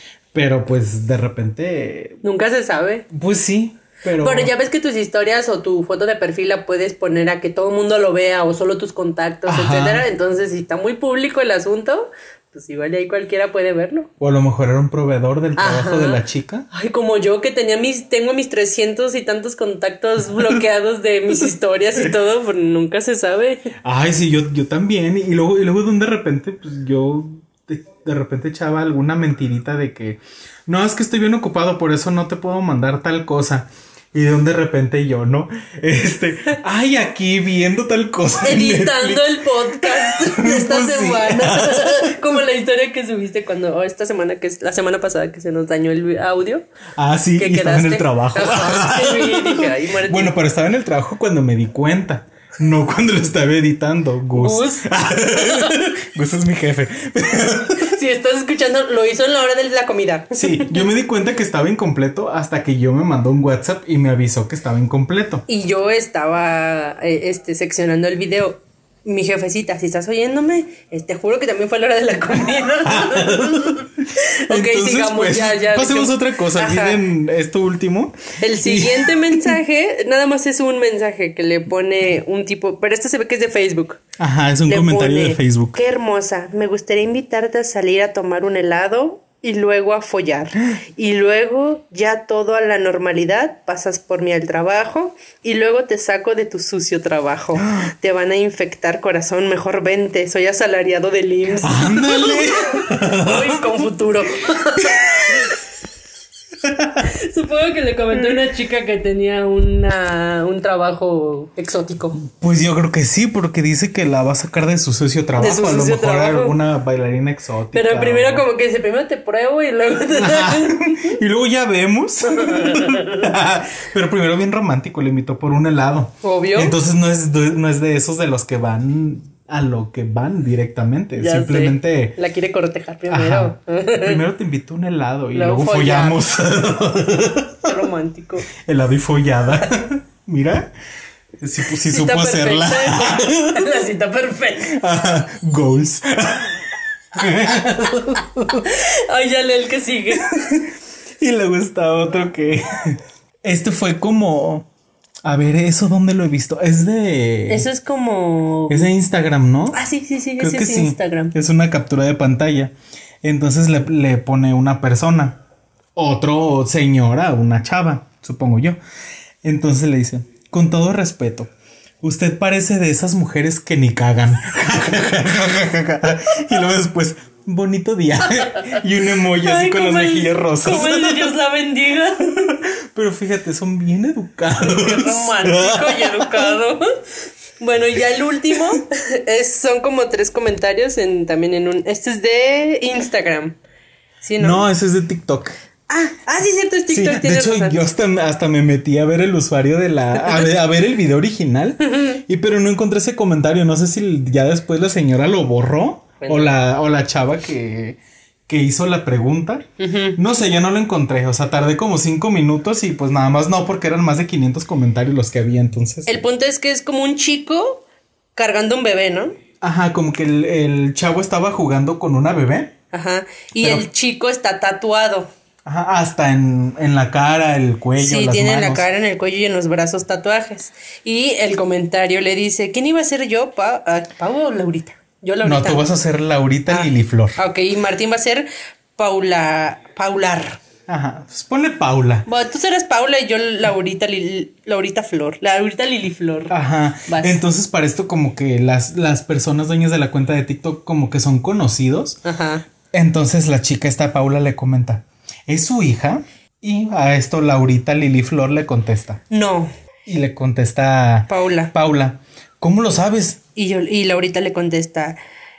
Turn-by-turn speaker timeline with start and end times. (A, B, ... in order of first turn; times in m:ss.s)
0:00.3-0:02.2 A
0:02.2-0:03.1 B
0:03.1-0:04.5 A
0:04.2-0:14.1 B
0:09.4-0:10.0 A
0:14.2-0:16.7 A
0:15.6-0:23.7 B
0:23.8-0:42.2 A
0:38.4-0:46.6 B
0:47.0-0:57.9 A
0:47.4-0:50.3 B
0:54.3-0:55.7 B
0:57.8-1:00.7 B
1:00.3-1:05.4 A
1:05.5-1:17.0 B
1:12.9-1:19.6 A
1:18.4-1:24.0 B
1:24.2-1:25.8 A
1:24.7-1:45.5 B
1:41.6-1:43.6 A
1:44.8-1:45.5 A
1:46.6-1:47.0 A
1:47.2-1:52.2 B
1:52.2-1:58.4 A
1:55.4-1:56.6 B
1:57.7-2:01.1 B
2:00.2-2:12.2 A
2:02.2-2:03.3 B
2:06.2-2:06.7 B
2:11.2-2:14.2 B
2:13.1-2:17.7 A
2:15.3-2:16.2 B
2:17.6-2:18.5 B
2:18.6-2:20.7 A
2:21.4-2:23.7 A
2:21.8-2:24.7 B
2:24.6-2:28.6 A
2:28.6-2:30.5 B
2:30.1-2:30.7 A
2:31.2-2:34.7 A
2:35.2-2:37.6 A
2:37.5-2:38.9 B
2:38.7-2:39.8 A
2:39.7-2:41.3 B
2:40.4-2:45.4 A
2:45.9-2:48.8 A
2:49.4-2:51.5 A
2:52.0-3:01.4 A
2:58.4-2:58.8 B
2:59.3-3:02.5 B
3:02.5-3:06.5 A
3:04.6-3:06.8 B
3:07.6-3:13.6 B
3:14.2-3:14.6 B
3:14.4-3:15.6 A
3:15.9-3:17.8 B
3:16.9-3:28.0 A
3:20.2-3:20.5 B
3:26.2-3:26.6 B
3:28.5-3:36.2 A
3:29.8-3:30.2 B
3:36.0-3:37.8 B
3:38.4-3:39.4 B
3:39.6-3:42.8 A
3:42.9-3:45.3 B
3:43.6-3:43.9 A
3:45.6-3:48.8 A
3:48.0-3:55.8 B
3:55.4-3:57.4 A
3:56.7-4:00.6 B
4:00.9-4:02.2 A
4:02.3-4:06.5 B
4:06.5-4:12.2 A
4:07.1-4:07.4 B
4:12.2-4:12.6 B
4:12.9-4:19.2 A
4:19.3-4:19.7 B
4:20.0-4:23.4 A
4:21.3-4:21.7 B
4:23.5-4:25.2 B